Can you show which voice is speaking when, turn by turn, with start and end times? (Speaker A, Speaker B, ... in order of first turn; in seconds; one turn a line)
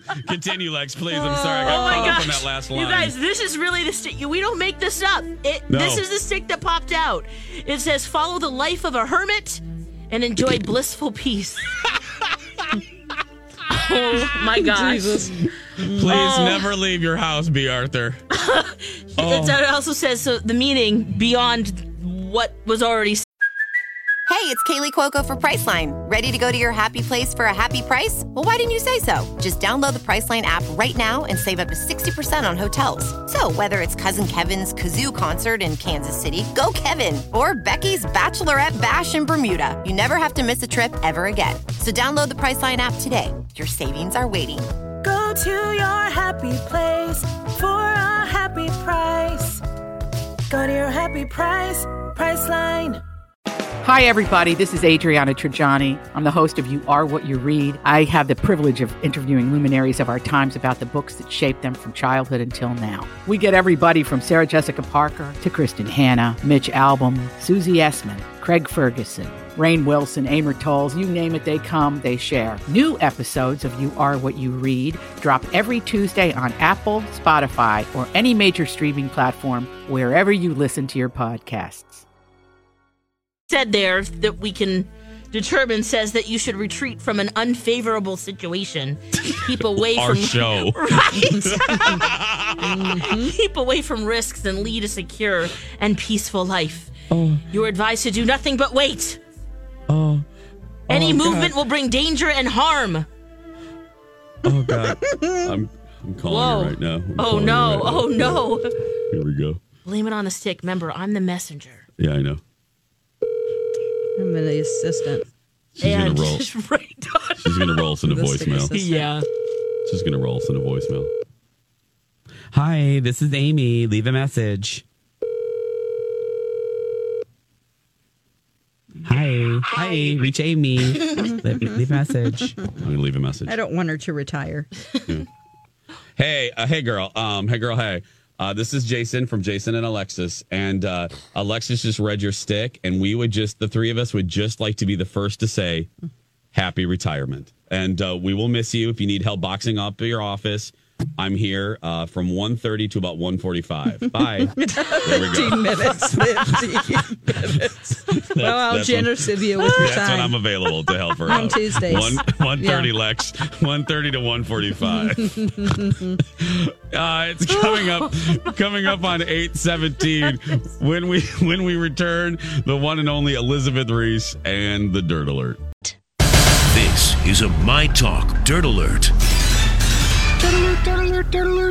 Speaker A: 0.2-3.1
Speaker B: 1.2-2.2
Speaker C: 1.2-11.7
Speaker A: 5.7-6.0
Speaker C: 13.7-15.4
Speaker B: 14.7-16.1
Speaker A: 15.9-18.2
Speaker C: 16.0-16.7
Speaker C: 18.3-23.2
Speaker A: 19.2-19.6
Speaker D: 24.3-44.7
Speaker E: 45.0-49.6
Speaker E: 50.5-53.0
Speaker F: 53.8-82.0
Speaker C: 83.5-92.1
Speaker A: 89.3-93.1
Speaker B: 92.7-93.3
Speaker C: 93.1-96.9
Speaker A: 97.1-97.4
Speaker C: 97.5-99.2
Speaker A: 99.9-100.2
Speaker A: 100.9-101.5
Speaker C: 100.9-103.0
Speaker A: 104.4-108.4
Speaker C: 106.2-108.7
Speaker A: 109.1-109.6
Speaker C: 109.8-111.8
Speaker A: 112.0-112.4
Speaker B: 114.2-115.2
Speaker A: 115.8-116.5
Speaker C: 115.8-117.9
Speaker A: 117.4-119.1
Speaker B: 118.1-118.9
Speaker C: 118.7-119.2
Speaker A: 119.8-121.1
Speaker A: 122.5-124.8
Speaker A: 129.1-133.5
Speaker B: 133.5-134.7
Speaker A: 136.2-145.9
Speaker A: 146.5-175.6
Speaker B: 154.6-160.4
Speaker B: 161.3-162.9
Speaker B: 165.0-166.2
Speaker C: 167.6-168.1
Speaker G: 176.7-179.1